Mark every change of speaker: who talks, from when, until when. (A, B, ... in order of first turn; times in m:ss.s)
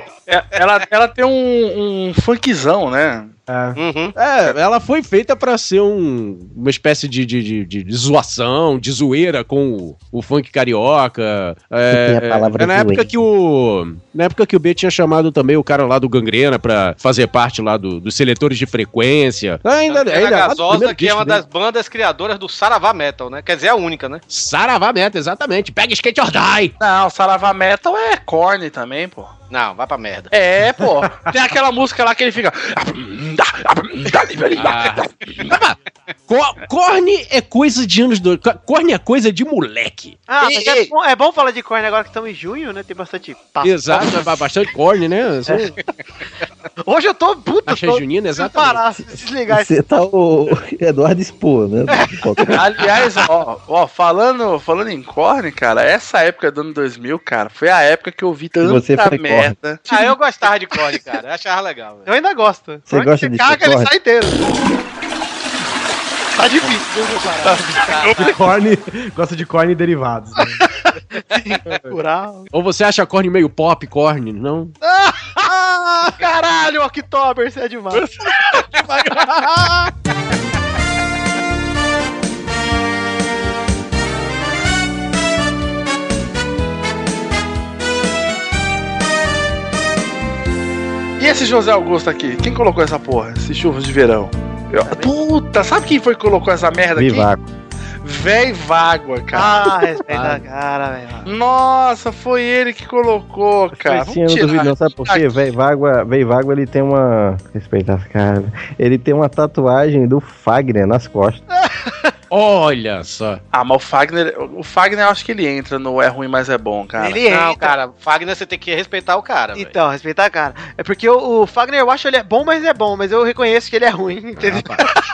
0:00.3-0:03.3 A
0:03.5-0:03.8 B
0:03.8-0:04.2 C
0:04.2-0:21.4 D
0:11.9-0:13.1 E
0:19.9-0:24.2 C
0:24.3-0:26.7 D
0:26.8-0:29.3 A
0:29.5-0:30.3 C
0:30.3-0:35.5 A
0:34.6-0:35.8 D
0:36.3-0:40.2 D
0:40.3-0:44.4 F
0:43.6-0:45.8 D
0:46.8-0:49.7 F
0:47.7-0:48.8 D
0:49.5-0:52.7 E
0:51.9-0:52.2 F
0:52.6-1:00.2 A
0:58.6-0:59.6 E
0:59.9-1:02.1 C
1:02.1-1:04.4 F
1:02.9-1:03.9 E
1:06.4-1:08.3 F
1:07.5-1:08.3 A
1:08.2-1:10.6 B
1:11.1-1:12.5 F
1:12.5-1:14.8 D
1:15.6-1:16.1 D
1:16.1-1:18.1 F
1:17.9-1:19.0 A
1:19.0-1:19.9 D
1:31.2-1:37.3 A
1:34.9-1:35.1 F
1:37.0-1:37.5 E
1:38.0-1:39.6 A
1:39.3-1:41.3 F
1:40.1-1:40.4 D
1:41.3-1:45.3 A
1:43.8-1:51.4 E
1:51.6-1:52.1 F
1:52.3-1:53.4 D
1:53.5-1:57.2 A
1:57.0-1:57.8 F
1:57.3-1:59.7 C
1:59.6-2:04.8 F
2:04.4-2:04.8 D